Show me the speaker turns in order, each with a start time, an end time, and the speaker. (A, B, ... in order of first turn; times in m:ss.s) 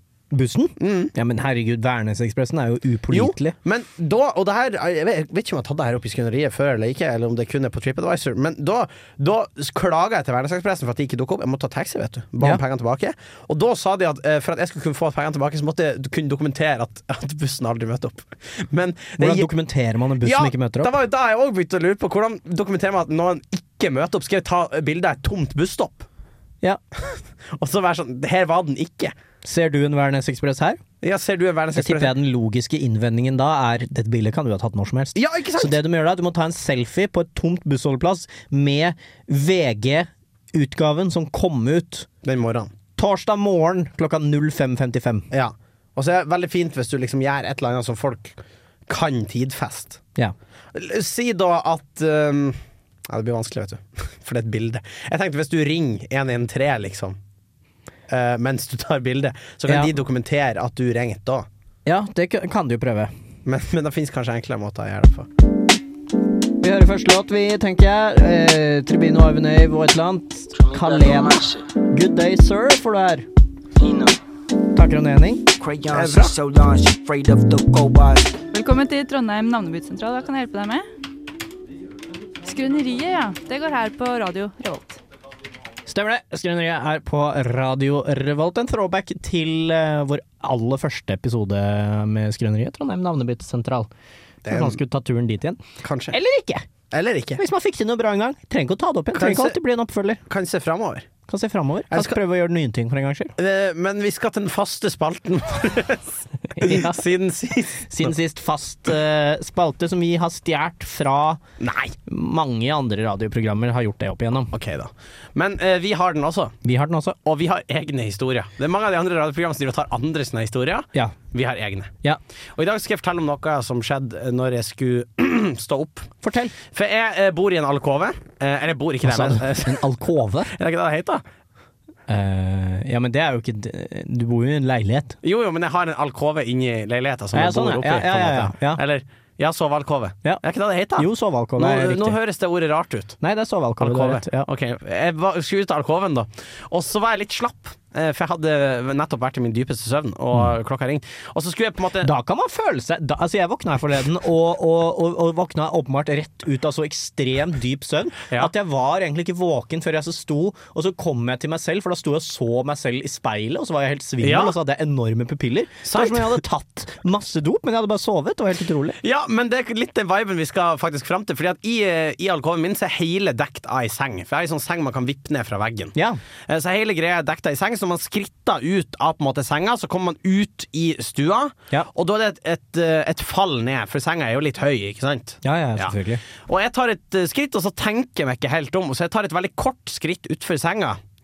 0:00.3-0:03.5 A
0:00.8-0:01.1 B
0:03.1-0:19.5 B
0:19.2-0:20.9 A
0:20.2-0:26.1 B
0:27.1-0:29.1 B
0:29.4-0:30.8 A
0:31.0-0:32.1 B
0:31.8-0:42.1 A
0:35.1-0:35.8 B
0:42.2-0:42.7 B
0:43.0-0:45.3 A
0:45.3-0:50.0 B
0:50.7-0:57.2 B
0:58.1-1:01.5 B
1:01.8-1:03.1 A
1:03.4-1:05.3 B
1:06.6-1:11.4 A
1:10.6-1:11.6 C
1:11.9-1:13.2 A
1:13.8-1:14.2 C
1:14.7-1:15.4 A
1:15.6-1:18.3 C
1:15.9-1:16.3 B
1:18.5-1:20.8 D
1:22.4-1:25.0 D
1:25.9-1:33.9 A
1:34.4-1:36.7 A
1:34.4-1:34.8 B
1:35.8-1:36.2 B
1:36.9-1:37.4 B
1:37.4-1:40.2 A
1:39.1-1:39.6 B
1:40.3-1:41.1 B
1:41.3-1:43.3 A
1:41.9-1:42.2 B
1:43.4-1:48.1 B
1:46.5-1:47.0 A
1:47.9-1:51.4 A
1:51.6-1:52.0 B
1:52.1-1:54.5 A
1:54.5-1:56.6 B
1:56.6-1:57.2 A
1:57.2-2:01.9 B
2:02.6-2:06.1 B
2:06.2-2:06.5 A
2:06.7-2:09.9 B
2:09.0-2:10.5 A
2:10.5-2:11.2 B
2:12.1-2:15.2 A
2:15.2-2:23.2 B
2:17.3-2:18.8 A
2:21.0-2:22.2 A
2:23.2-2:24.5 A
2:23.8-2:32.1 B
2:32.0-2:49.0 A
2:44.2-2:44.6 B
2:45.8-2:46.4 B
2:49.0-2:55.9 B
2:56.5-3:11.0 B
3:05.4-3:06.2 A